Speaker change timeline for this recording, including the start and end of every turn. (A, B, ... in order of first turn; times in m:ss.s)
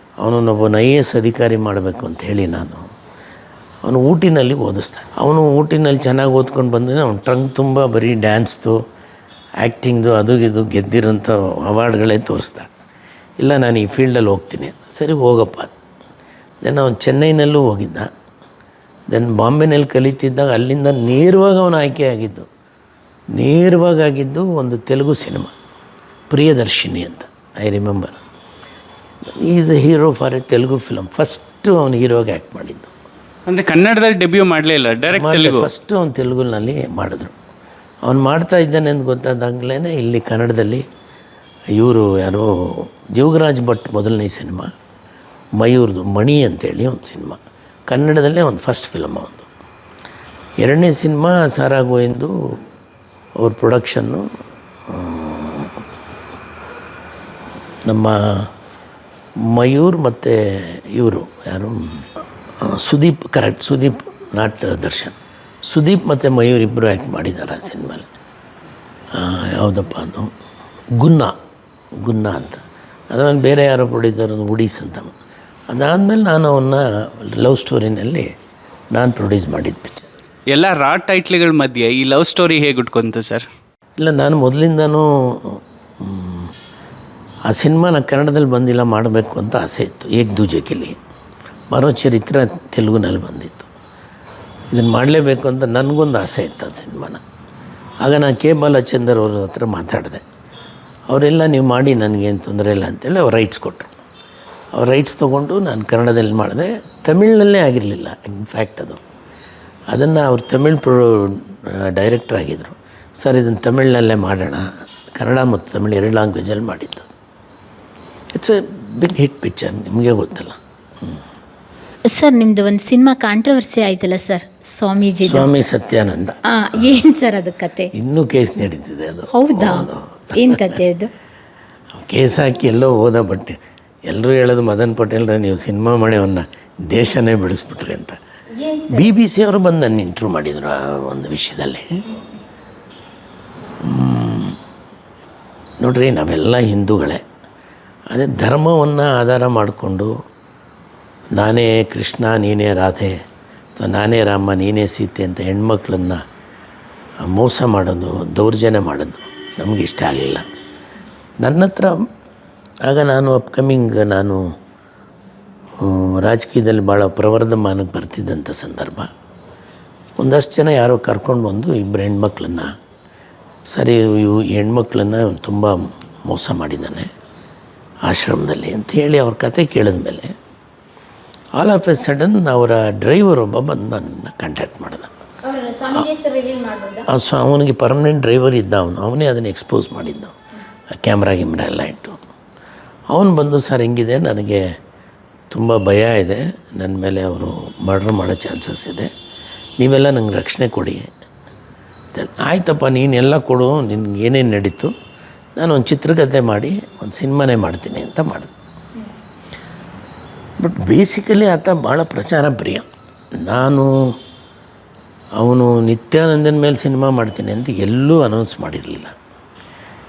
0:00.2-0:02.9 A
0:03.8-0:08.8 A
0:09.6-0:12.7 A
0:13.4-0:15.7 A
0:16.6-0:18.1 A
0:19.1-0:22.5 A
0:23.4-0:25.5 A
0:26.3-0:28.2 A
0:29.4-0:32.9 A
0:33.5-0:35.7 B
0:35.1-0:37.3 A
0:38.1-0:40.8 A
0:41.8-0:44.7 A
0:45.6-0:49.5 A
0:50.6-0:52.4 A
0:53.4-0:54.3 A
0:54.9-0:55.7 A
0:57.9-0:58.5 A
0:59.5-1:02.0 A
1:02.6-1:05.2 A
1:05.7-1:08.1 A
1:09.2-1:10.3 A
1:11.0-1:11.3 A
1:12.0-1:15.1 A
1:15.7-1:18.3 A
1:18.9-1:20.1 A
1:20.5-1:23.5 B
1:24.0-1:26.5 A
1:27.5-1:31.0 A
1:31.7-1:33.7 A
1:34.7-1:37.2 A
1:38.0-1:40.2 A
1:41.1-1:43.9 A
1:44.8-1:49.0 A
1:49.9-1:57.1 A
1:58.4-2:01.2 A
2:02.1-2:05.5 C
2:05.2-2:07.0 A
2:06.5-2:07.9 C
2:07.9-2:10.8 A
2:09.3-2:11.1 C
2:12.0-2:18.2 A
2:18.6-2:19.1 C
2:18.9-2:22.0 A
2:23.8-2:24.6 A
2:25.8-2:27.2 A
2:28.1-2:30.1 A
2:31.4-2:33.2 A
2:33.8-2:36.2 A
2:37.2-2:40.4 A
2:41.4-2:42.0 A
2:42.9-2:44.4 A
2:45.8-2:49.1 A
2:50.2-2:52.7 A
2:53.7-2:57.1 A
2:58.1-3:00.3 A
3:01.6-3:05.1 A
3:05.4-3:07.1 C
3:07.1-3:10.4 A
3:10.9-3:12.2 A
3:13.1-3:14.6 A
3:15.5-3:19.1 A
3:19.8-3:21.1 A
3:22.2-3:24.9 A
3:25.6-3:28.5 A
3:30.6-3:32.9 A
3:33.4-3:34.0 A
3:35.4-3:39.2 A